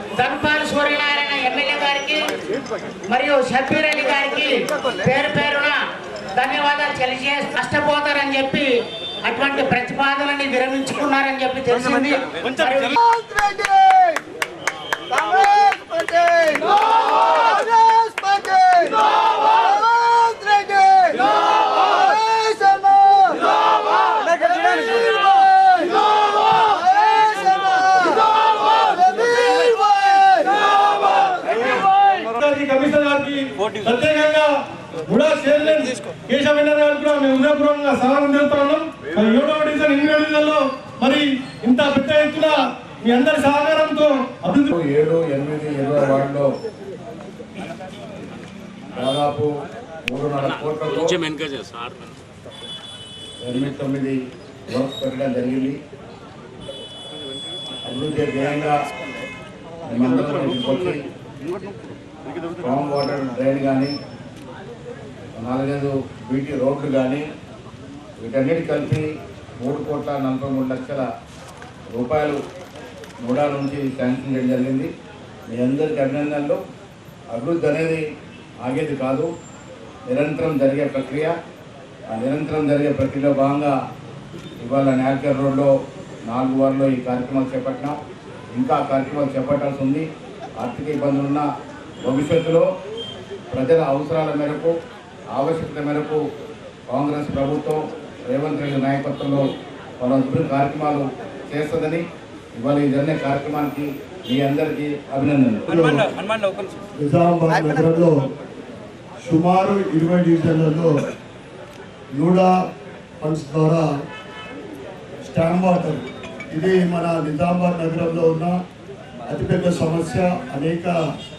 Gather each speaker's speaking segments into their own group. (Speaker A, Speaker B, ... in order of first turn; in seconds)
Speaker A: 0.2-2.2, 3.1-12.9
Speaker B: 12.4-12.9, 32.3-34.5, 35.1-44.7
Speaker C: 12.9-14.2, 15.1-31.7, 107.5-108.0
Speaker D: 44.7-46.5, 48.9-49.5, 50.0-51.3, 53.4-55.8, 57.8-58.8, 59.8-61.0, 62.6-63.9, 65.3-67.2, 68.2-71.0, 71.9-72.4, 73.2-74.9, 75.5-76.6, 77.3-78.0, 78.6-79.3, 80.0-81.3, 82.1-83.8, 84.6-85.7, 86.2-88.0, 88.5-90.1, 90.6-91.5, 92.0-92.7, 93.5-94.7, 95.3-96.2, 96.9-105.7
Speaker E: 105.7-106.1, 107.0-108.1, 109.2-111.1, 112.1-112.5, 113.2-113.9, 115.2-118.5, 119.3-121.0